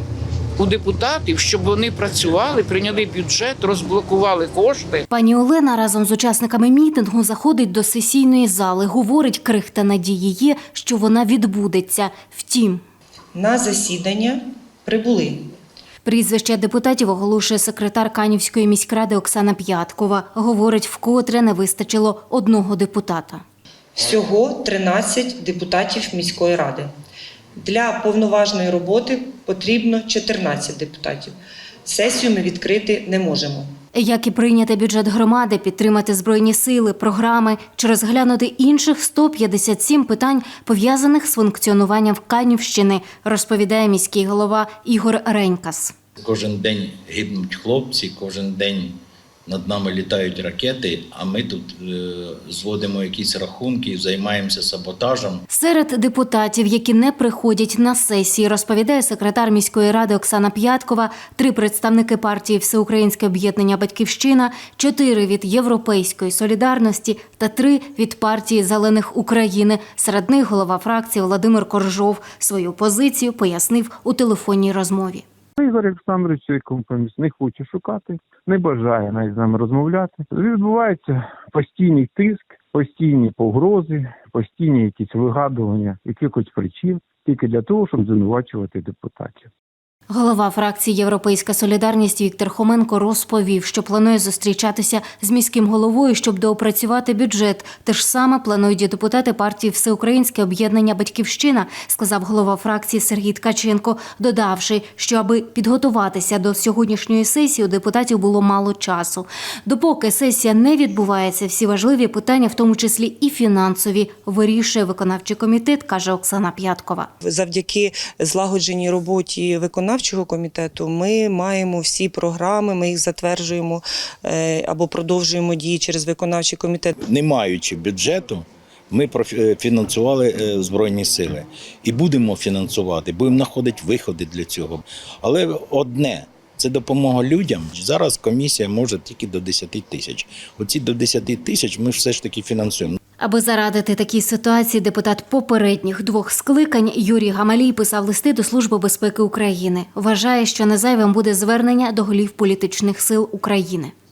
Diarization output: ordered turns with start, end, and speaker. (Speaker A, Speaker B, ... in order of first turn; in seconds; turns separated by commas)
Speaker A: 0.6-5.0, Speaker B: 5.1-12.8, Speaker C: 13.3-15.5, Speaker B: 16.0-23.4, Speaker C: 24.0-26.9, Speaker C: 27.6-31.3, Speaker C: 31.9-33.7, Speaker B: 34.0-45.9, Speaker D: 46.2-55.4, Speaker B: 55.5-75.2, Speaker E: 75.6-89.5, Speaker B: 90.1-117.1, Speaker C: 117.2-126.9, Speaker D: 127.0-143.0, Speaker B: 143.2-153.9